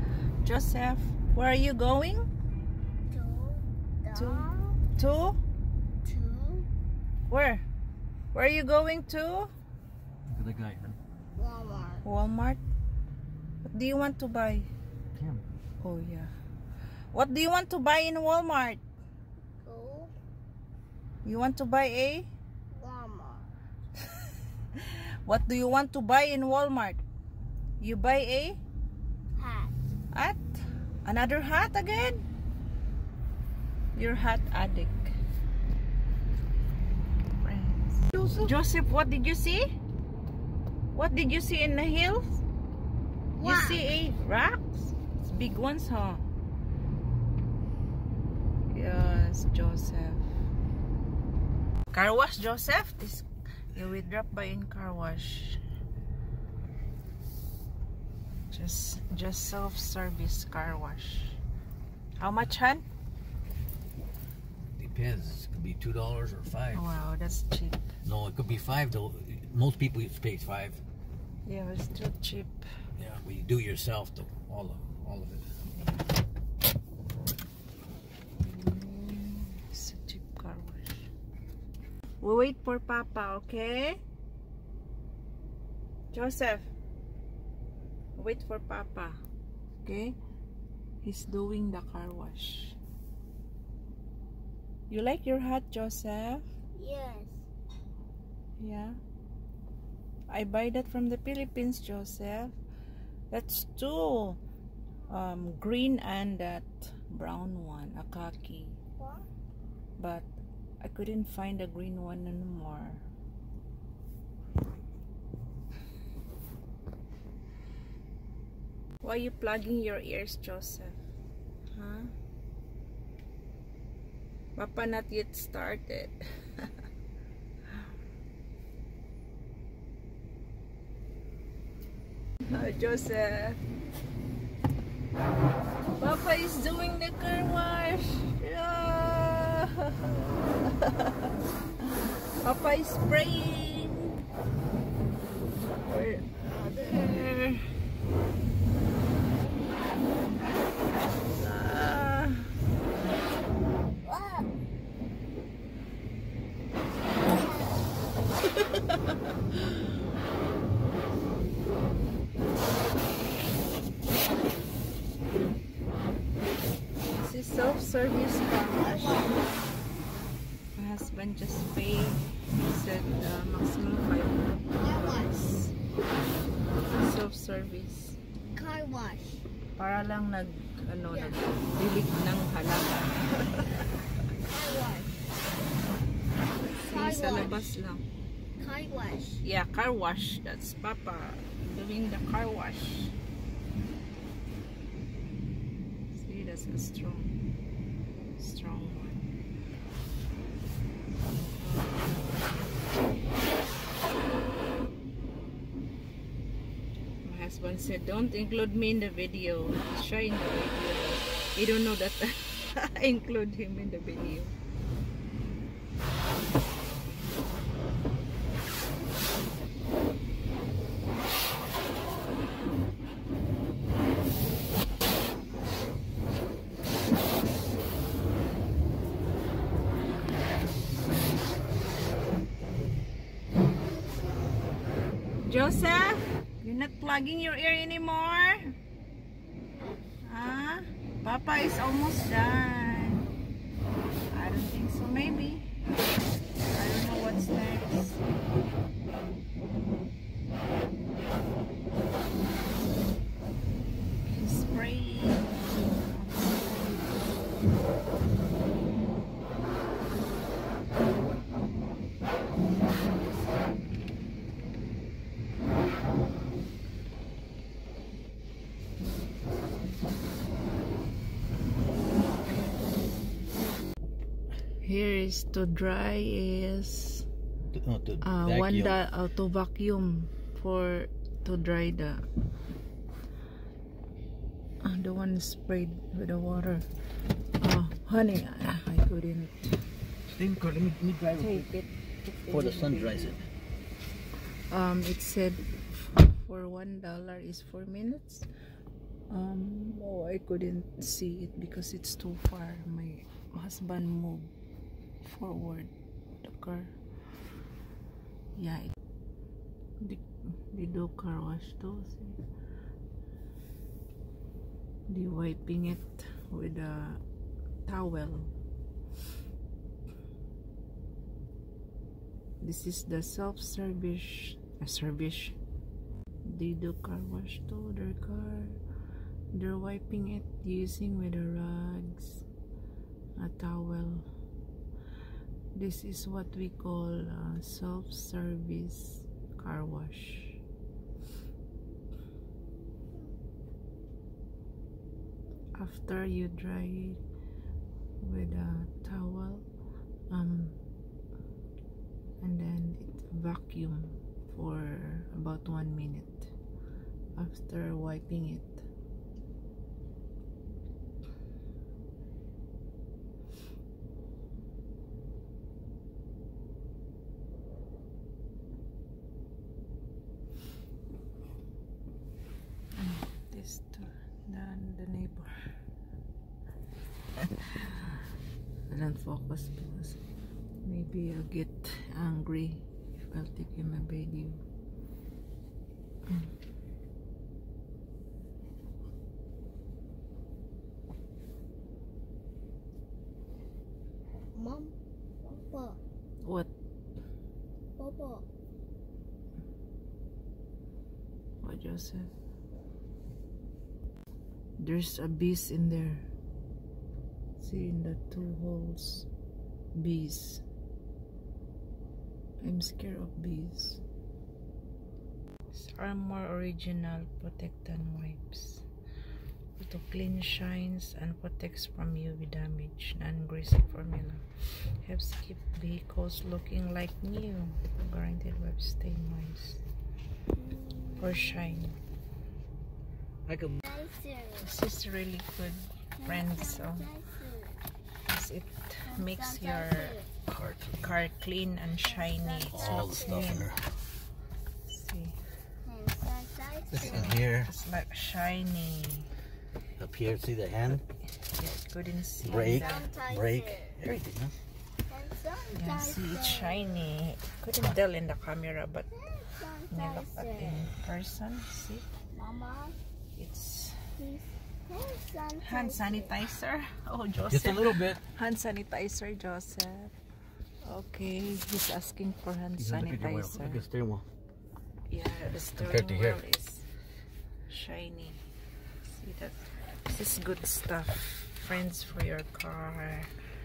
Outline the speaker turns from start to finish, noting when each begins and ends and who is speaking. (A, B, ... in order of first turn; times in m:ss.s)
0:00.4-0:02.3 A
0:03.1-0:04.8 B
0:04.1-0:05.4 A
0:06.0-0:06.7 B
0:07.3-0:07.6 A
0:08.3-0:09.5 A
0:10.3-0:11.0 C
0:11.4-0:12.0 B
0:12.0-0:12.6 A
0:13.6-0:14.7 A
0:15.2-0:15.4 C
0:15.8-0:16.3 A
0:17.1-0:18.8 A
0:19.6-0:20.1 B
0:21.2-0:22.3 A
0:22.7-0:23.5 B
0:24.7-0:27.0 A
0:27.8-0:28.6 A
0:29.4-0:29.8 B
0:30.1-0:30.4 A
0:31.0-0:32.2 A
0:33.9-0:35.2 A
0:37.3-0:39.7 A
0:40.9-0:42.4 A
0:43.4-0:43.9 B
0:43.4-0:46.2 A
0:48.7-0:50.3 A
0:51.9-0:55.6 A
0:58.5-1:01.4 A
1:02.2-1:02.8 A
1:04.8-1:06.8 C
1:06.7-1:07.8 A
1:08.0-1:10.8 C
1:11.5-1:12.7 A
1:13.0-1:15.5 C
1:18.4-1:21.1 A
1:22.2-1:24.0 A
1:26.1-1:26.7 A
1:28.2-1:29.2 A
1:29.8-1:30.2 A
1:31.0-1:32.8 A
1:34.9-1:36.4 A
1:36.8-1:37.4 B
1:38.6-1:39.0 A
1:40.3-1:42.6 A
1:43.3-1:44.4 A
1:45.1-1:48.8 A
1:49.0-1:49.2 B
1:50.0-1:50.3 A
1:50.8-1:53.0 A
1:59.0-2:01.0 A
2:01.7-2:02.1 A
2:04.6-2:06.7 A
2:12.5-2:13.6 A
2:16.0-2:21.3 A
2:22.4-2:24.2 A
2:25.8-2:27.7 A
2:31.3-2:32.5 A
2:34.0-2:34.5 B
2:37.2-2:37.8 B
2:47.2-2:49.3 A
2:48.6-2:49.4 B
2:50.8-2:55.7 A
2:54.8-2:55.3 B
2:56.9-2:58.2 A
2:58.5-2:59.4 B
2:59.8-3:03.7 A
3:01.1-3:01.4 B
3:04.5-3:05.1 B
3:06.8-3:08.0 A
3:06.8-3:07.7 B
3:08.6-3:09.4 B
3:09.4-3:13.1 A
3:16.1-3:17.4 A
3:18.4-3:19.3 A
3:21.6-3:22.5 A
3:27.2-3:34.5 A
3:55.4-3:58.7 A
3:59.7-4:00.1 B
4:00.2-4:03.3 A
4:04.3-4:05.7 A
4:06.7-4:08.2 A
4:14.2-4:17.2 A
4:32.5-4:32.7 A
4:34.8-4:37.3 A
4:37.7-4:39.0 C
4:38.2-4:42.3 A
4:44.8-4:46.9 A
4:47.6-4:49.8 A
4:50.3-4:51.7 C
4:51.4-4:53.4 A
4:52.5-4:53.5 C
4:54.7-4:58.5 A
4:59.3-5:04.5 A
5:05.2-5:07.0 A
5:08.6-5:08.9 A
5:10.0-5:12.4 A
5:15.1-5:17.2 A
5:17.9-5:18.5 A
5:22.6-5:25.6 A
5:26.5-5:28.8 A
5:29.5-5:32.4 A
5:33.4-5:34.3 A
5:35.7-5:40.6 A
5:45.7-5:47.2 A
5:48.2-5:49.6 A
5:50.3-5:50.8 A
5:52.4-5:56.5 A
5:57.4-5:58.8 A
6:13.0-6:15.5 A
6:17.4-6:18.2 A
6:18.9-6:20.2 A
6:20.8-6:24.6 A
6:34.5-6:36.0 B
6:36.4-6:36.7 A
6:38.0-6:38.4 B
6:41.6-6:42.3 A
6:44.8-6:46.3 A
6:47.6-6:49.3 A
6:50.0-6:50.6 A
6:52.6-6:54.0 A
6:55.7-6:58.8 A
6:59.8-7:09.8 A
7:10.6-7:11.8 B
7:11.2-7:12.0 A
7:13.5-7:13.8 C
7:13.8-7:14.8 B
7:14.6-7:17.1 A
7:16.2-7:17.8 B
7:18.3-7:20.2 A
7:19.0-7:20.3 B
7:20.5-7:21.2 C
7:21.0-7:23.7 A
7:22.0-7:23.6 B
7:22.7-7:23.8 C
7:24.9-7:25.4 A
7:25.8-7:27.4 B
7:26.9-7:27.7 C
7:27.0-7:29.3 A
7:30.0-7:31.0 C
7:31.4-7:33.1 A
7:32.4-7:34.6 C
7:32.5-7:34.0 B
7:35.1-7:37.1 B
7:35.7-7:39.1 A
7:39.1-7:40.9 B
7:39.9-7:42.0 A
7:42.3-7:43.0 B
7:43.4-7:44.1 A
7:44.2-7:46.3 B
7:45.6-7:50.1 A
7:47.5-7:48.2 C
7:50.8-7:53.8 A
7:52.8-7:54.2 C
7:55.1-7:56.9 A
7:55.8-7:56.4 C
7:57.7-7:58.4 A
7:59.2-8:03.4 A